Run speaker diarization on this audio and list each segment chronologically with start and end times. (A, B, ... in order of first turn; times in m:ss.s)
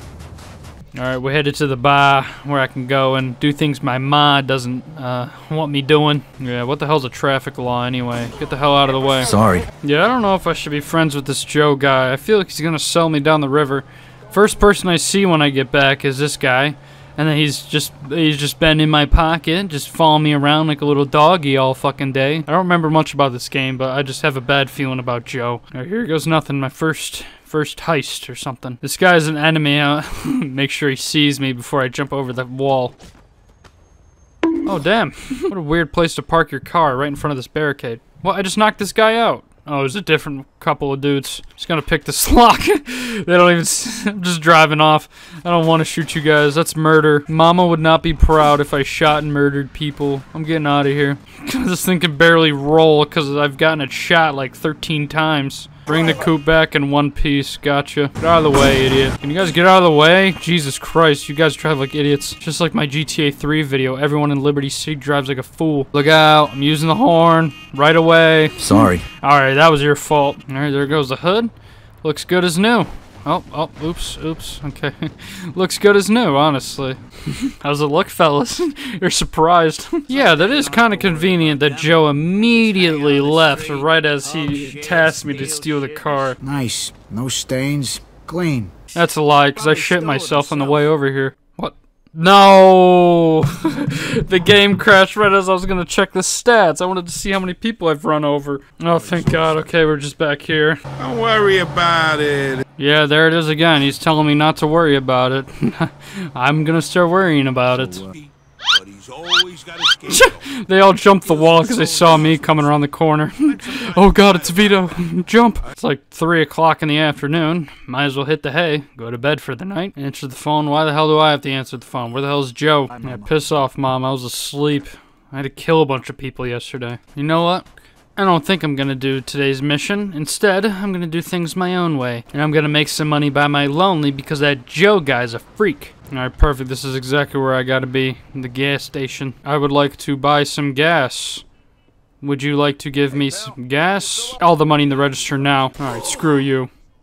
0:01.0-0:32.9 A
0:09.2-0:09.7 B
0:34.6-1:11.5 A
1:08.6-1:09.0 B
1:12.0-1:26.4 A
1:22.8-1:26.2 C
1:26.4-1:28.7 B
1:28.9-1:40.8 A
1:29.8-1:30.3 C
1:39.0-1:39.6 C
1:41.0-1:42.7 C
1:42.8-1:48.0 A
1:47.7-1:48.1 B
1:48.1-1:50.5 C
1:50.1-2:21.4 A
1:51.2-1:52.7 C
1:53.4-1:55.0 C
2:02.9-2:03.3 B
2:22.2-2:26.7 A